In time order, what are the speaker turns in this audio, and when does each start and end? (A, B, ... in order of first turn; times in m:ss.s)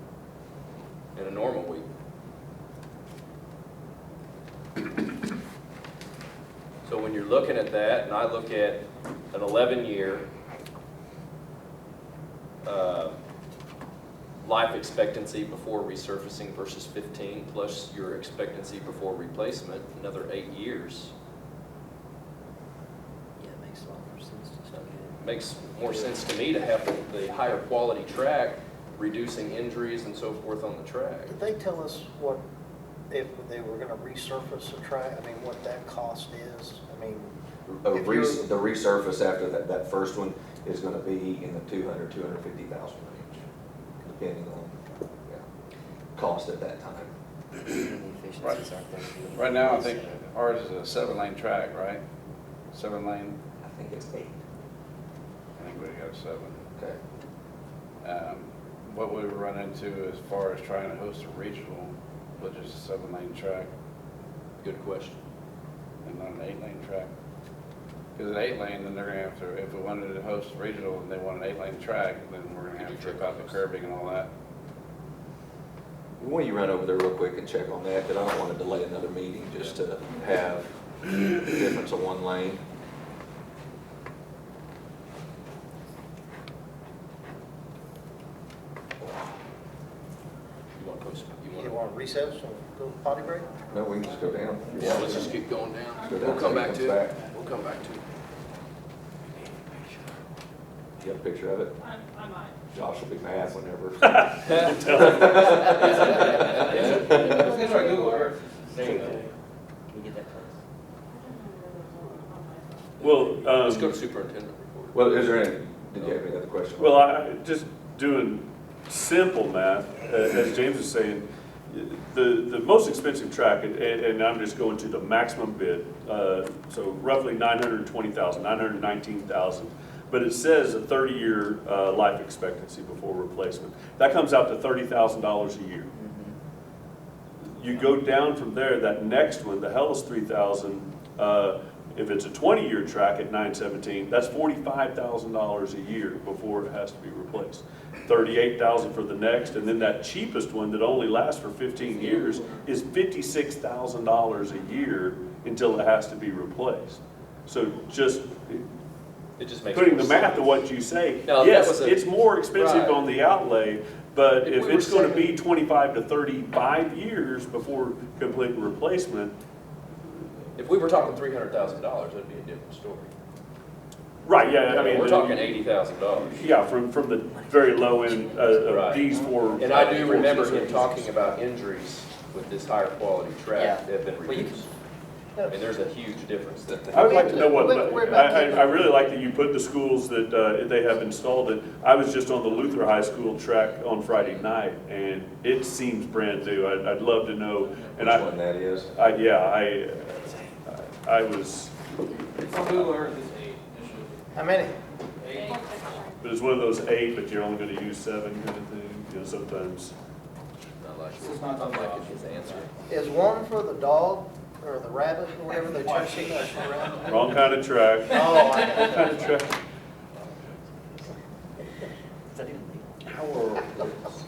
0:01.1-0:01.8 A
0:06.8-0:10.3 A
0:12.6-0:13.2 A
0:14.4-0:21.1 A
0:23.4-0:25.1 B
0:24.7-0:31.3 A
0:31.2-0:32.4 C
0:33.1-0:37.3 C
0:37.6-0:43.4 D
0:37.9-0:38.5 C
0:44.0-0:45.4 D
0:46.2-0:47.1 D
0:47.6-0:50.2 B
0:48.4-0:48.8 E
0:49.3-0:52.0 E
0:52.7-0:53.4 E
0:53.6-0:54.4 D
0:55.6-0:56.6 E
0:58.0-1:03.7 E
1:04.6-1:05.2 A
1:06.0-1:07.1 E
1:08.1-1:14.3 E
1:12.7-1:13.6 A
1:16.2-1:22.6 D
1:30.7-1:31.9 A
1:31.5-1:33.6 C
1:33.7-1:37.1 D
1:34.7-1:38.0 A
1:35.9-1:36.4 F
1:41.0-1:41.8 D
1:41.8-1:42.6 F
1:42.7-1:46.0 D
1:44.0-1:45.5 G
1:44.5-1:47.0 A
1:46.6-1:47.5 D
1:46.6-1:49.2 B
1:47.3-1:48.9 F
1:47.6-1:48.3 H
1:48.9-1:49.3 H
1:49.9-1:50.6 B
1:51.1-1:53.2 F
1:53.0-1:54.0 G
1:53.6-1:55.2 A
1:54.9-1:57.1 D
1:56.8-2:15.9 G
2:16.0-2:16.3 B
2:17.5-2:38.6 G
2:39.4-2:40.5 A
2:39.7-2:49.3 G
2:41.2-2:43.0 A
2:44.4-2:45.3 A
2:50.6-2:53.1 A
2:54.2-2:55.6 G
2:54.7-2:56.4 A
2:56.2-3:00.4 G
2:58.4-2:58.9 F
2:58.6-3:04.7 A
2:59.2-3:01.3 B
3:03.5-3:04.6 B
3:05.3-3:06.0 C
3:05.5-3:07.5 A
3:06.9-3:09.1 C
3:06.9-3:18.4 G
3:18.0-3:19.0 D
3:18.9-3:21.8 G
3:22.4-3:24.2 H
3:22.4-3:23.0 G
3:24.3-3:24.7 C
3:25.2-3:25.9 H
3:25.3-3:26.2 F
3:26.2-3:29.9 G
3:30.8-3:32.7 A
3:31.1-3:32.6 H
3:32.9-3:37.4 C
3:35.7-3:36.9 H
3:37.0-3:39.5 G
3:38.1-3:39.2 C
3:42.3-3:42.9 B
3:43.2-3:43.9 D
3:43.4-3:43.6 G